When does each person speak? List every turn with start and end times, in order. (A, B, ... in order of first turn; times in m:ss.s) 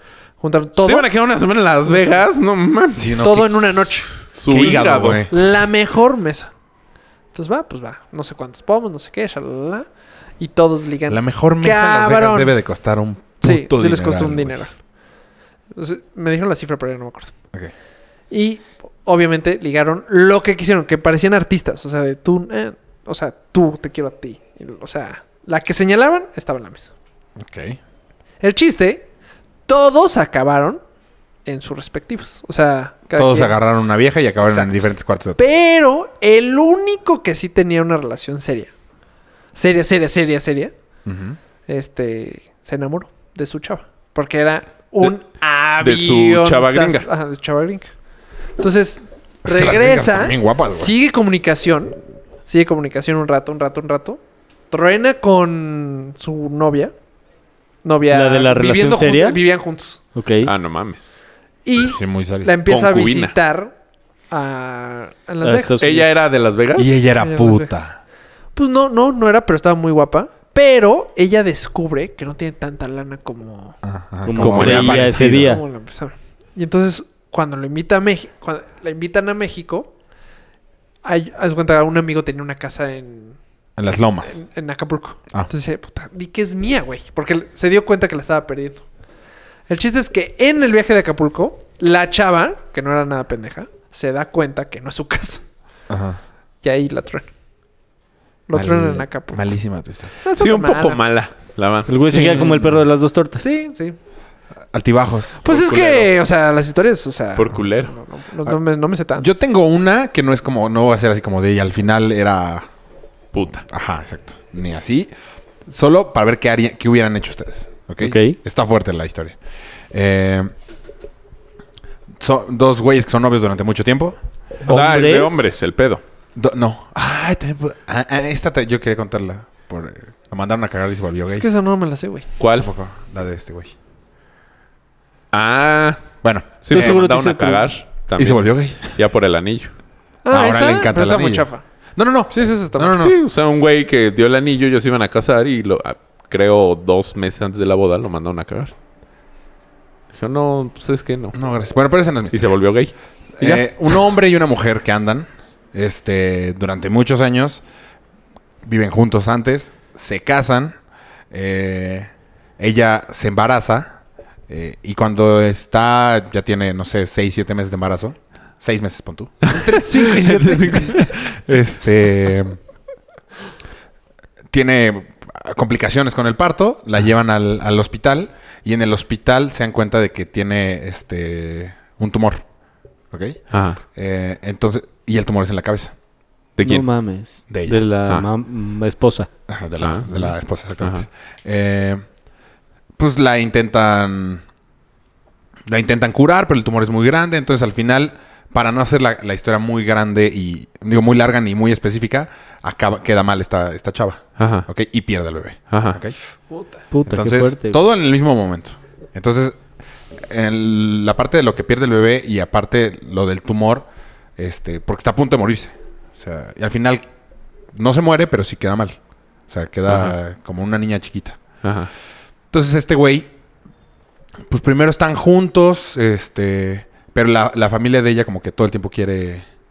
0:00.4-0:01.1 A
0:00.8-0:03.4 B
0:01.8-0:02.2 A
0:03.0-0:03.9 C
0:03.2-0:06.5 A
0:04.1-0:05.3 B
0:04.5-0:05.5 C
0:07.3-0:09.8 A
0:10.4-0:12.5 A
0:11.1-0:14.6 C
0:13.4-0:14.7 A
0:15.7-0:17.3 A
0:18.3-0:26.9 A
0:27.4-0:27.8 C
0:28.4-0:29.1 A
0:29.7-0:30.8 A
0:31.4-0:33.6 A
0:33.1-0:35.4 C
0:34.5-0:38.7 A
0:39.5-0:40.7 A
0:41.0-0:41.4 C
0:41.7-0:47.9 A
0:45.8-0:47.1 B
0:48.6-0:54.2 A
0:49.4-0:50.9 C
0:54.7-0:56.9 A
0:57.8-1:00.0 A
0:58.1-0:59.4 D
1:00.1-1:00.5 D
1:00.4-1:01.1 B
1:01.6-1:03.7 A
1:01.8-1:02.5 C
1:02.6-1:03.3 B
1:04.3-1:06.1 A
1:05.4-1:05.9 D
1:05.8-1:07.0 B
1:06.8-1:08.0 C
1:07.2-1:07.8 A
1:08.6-1:13.8 A
1:13.8-1:15.6 C
1:14.2-1:15.6 D
1:14.4-1:15.2 B
1:14.6-1:19.9 A
1:21.0-1:23.4 A
1:23.8-1:24.4 C
1:24.2-1:28.8 A
1:29.7-1:35.4 A
1:35.9-1:36.2 C
1:36.6-1:37.3 A
1:38.5-1:39.4 A
1:38.5-1:40.1 C
1:40.2-1:41.0 A
1:40.3-1:42.4 B
1:41.9-1:43.5 D
1:42.0-1:42.8 C
1:43.4-1:44.0 A
1:44.7-1:45.8 C
1:45.4-1:49.4 A
1:45.5-1:46.0 B
1:47.4-1:47.9 B
1:49.2-1:52.7 C
1:53.3-1:53.6 B
1:53.6-1:55.1 C
1:55.7-1:59.4 C
1:58.0-1:58.4 D
1:59.9-2:00.5 C
2:02.2-2:04.2 C
2:04.6-2:05.5 D
2:04.6-2:06.0 B
2:06.4-2:11.5 C
2:11.3-2:12.3 A
2:12.4-2:12.7 B
2:12.5-2:13.7 C
2:15.3-2:16.1 B
2:16.2-2:17.0 C
2:16.6-2:19.7 B
2:16.7-2:17.7 D
2:18.2-2:19.0 C
2:20.2-2:21.6 A
2:20.3-2:23.2 C
2:22.3-2:23.0 A
2:23.0-2:28.7 B
2:30.1-2:31.4 B
2:31.3-2:32.5 C
2:32.3-2:33.6 B
2:33.4-2:37.6 C
2:38.6-2:40.8 C
2:41.3-2:44.0 C
2:44.5-2:52.6 C
2:49.4-2:51.2 B
2:49.8-2:50.8 A
2:54.5-3:02.4 C
3:03.1-3:05.9 C
3:03.5-3:03.8 B
3:06.6-3:06.8 B
3:06.6-3:09.3 D
3:07.5-3:07.8 C
3:09.5-3:12.0 C
3:09.8-3:11.0 B
3:13.0-3:14.4 C
3:15.7-3:26.2 C
3:24.4-3:24.7 B
3:25.7-3:26.0 B
3:26.9-3:27.8 D
3:27.1-3:29.6 C
3:30.2-3:37.0 C
3:37.7-3:39.0 C
3:39.5-3:41.4 C
3:39.9-3:40.1 B
3:41.6-3:41.9 B
3:42.5-3:43.3 C
3:44.5-3:49.4 C